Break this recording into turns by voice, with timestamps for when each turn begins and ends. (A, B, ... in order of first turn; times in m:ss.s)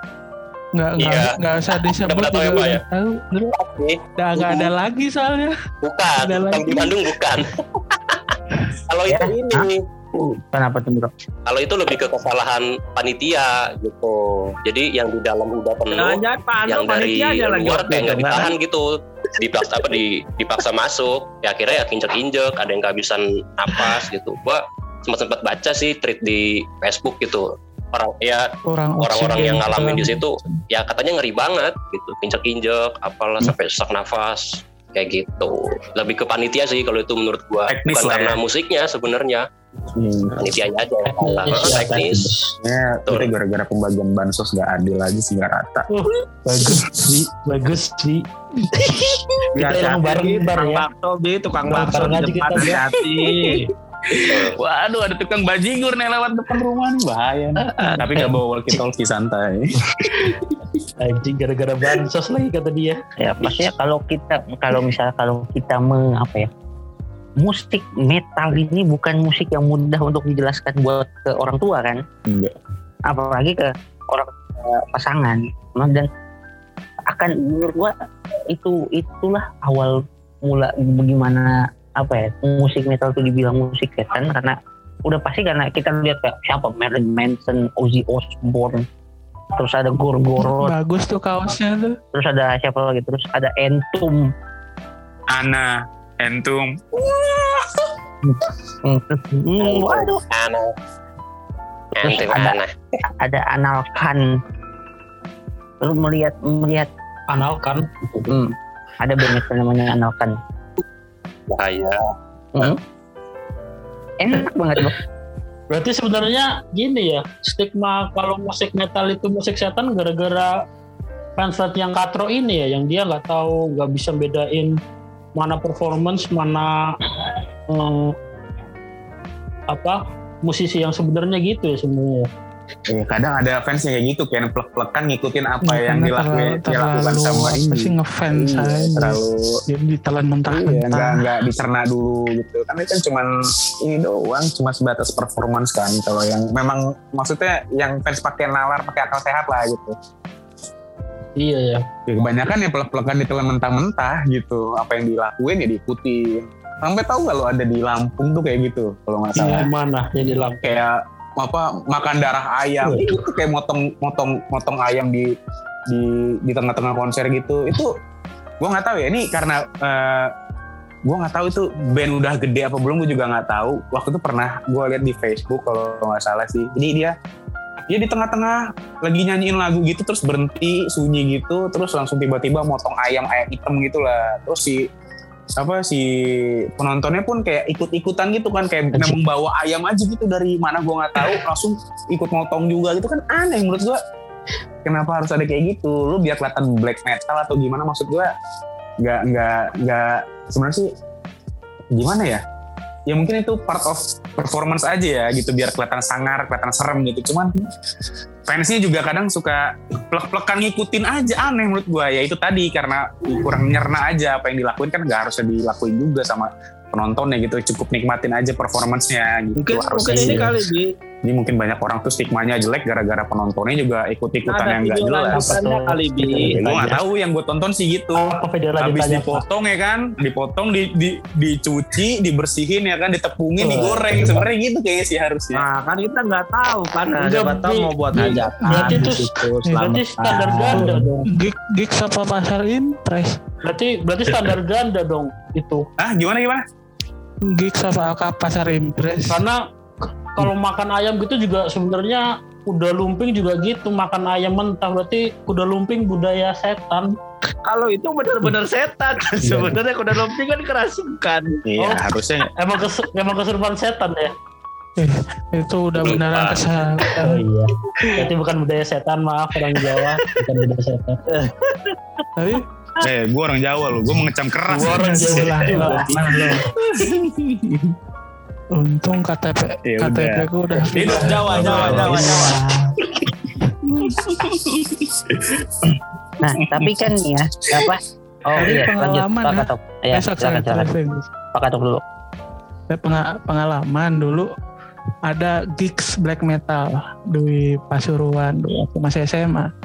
0:00.8-0:03.6 A
0:01.0-0:02.8 B
0:03.5-0:04.7 B
0:04.2-0:05.5 A
0:05.8-0:08.4 B
0:06.2-0:07.0 A
0:08.9-0:09.8 B
0:09.1-0:11.1 C
0:11.5-0:28.5 B
0:15.9-0:18.6 D
0:28.7-0:30.2 A
0:29.0-0:39.5 B
0:37.7-0:38.4 E
0:40.0-0:40.5 E
0:40.4-0:42.3 B
0:41.1-0:42.5 F
0:42.6-0:45.9 E
0:43.1-0:43.3 B
0:45.9-0:50.8 F
0:49.6-0:53.7 D
0:51.6-0:52.9 F
0:54.1-1:00.1 E
0:57.6-0:58.8 F
0:59.9-1:03.0 F
1:03.2-1:06.5 C
1:07.4-1:12.0 C
1:12.3-1:12.5 E
1:13.1-1:16.1 C
1:17.1-1:17.9 C
1:18.5-1:24.5 C
1:25.1-1:28.8 C
1:29.6-1:30.8 C
1:30.5-1:32.0 A
1:32.1-1:34.3 C
1:35.3-1:37.7 E
1:38.3-1:40.2 C
1:39.6-1:40.7 B
1:42.0-1:43.0 B
1:42.0-1:42.6 C
1:43.2-1:44.3 C
1:45.8-1:46.9 C
1:47.3-1:48.3 F
1:48.3-1:50.4 C
1:51.5-1:52.1 B
1:52.6-1:52.8 C
1:54.2-1:55.0 C
1:55.7-2:00.6 F
2:01.4-2:04.8 F
2:05.4-2:06.9 F
2:07.7-2:08.1 F
2:09.7-2:12.3 F
2:12.9-2:19.6 E
2:15.6-2:21.3 A
2:20.5-2:23.3 E
2:23.8-2:30.0 E
2:31.4-2:31.8 F
2:32.1-2:39.7 E
2:39.4-2:39.6 A
2:39.4-2:40.6 F
2:40.6-2:45.3 E
2:42.8-2:43.2 F
2:45.9-2:47.9 E
2:48.6-2:50.3 E
2:51.1-2:57.1 E
2:57.9-3:04.8 E
3:05.6-3:06.1 E
3:06.8-3:14.0 E
3:14.8-3:18.3 E
3:19.0-3:20.9 E
3:22.0-3:22.4 E
3:23.1-3:27.5 E
3:28.5-3:40.5 E
3:39.6-3:40.9 D
3:40.1-3:40.5 F
3:41.2-3:45.7 E
3:44.5-3:46.9 D
3:45.3-3:47.0 F
3:46.5-3:55.6 E
3:48.2-3:49.4 F
3:53.6-3:54.4 F
3:55.6-4:01.0 D
3:57.2-4:01.3 F
3:58.2-3:59.1 A
4:00.7-4:03.4 A
4:03.6-4:05.9 F
4:06.0-4:06.6 E
4:07.5-4:09.4 A
4:09.3-4:09.6 F
4:10.4-4:17.2 F
4:17.7-4:21.6 D
4:19.4-4:19.8 F
4:21.7-4:22.5 E
4:22.6-4:24.3 F
4:25.0-4:27.4 A
4:26.0-4:26.5 B
4:27.2-4:31.2 F
4:31.3-4:32.0 D
4:32.4-4:32.6 A
4:33.0-4:36.1 E
4:34.7-4:36.4 F
4:34.8-4:36.6 A
4:36.9-4:37.8 E
4:38.8-4:43.0 A
4:39.9-4:42.6 E
4:41.0-4:42.4 F
4:41.6-4:42.5 D
4:43.6-4:44.2 A
4:44.0-4:46.0 E
4:46.4-4:50.9 C
4:46.6-4:46.9 E
4:48.6-4:51.3 A
4:51.5-4:52.0 C
4:52.9-4:54.5 A
4:55.3-4:59.7 A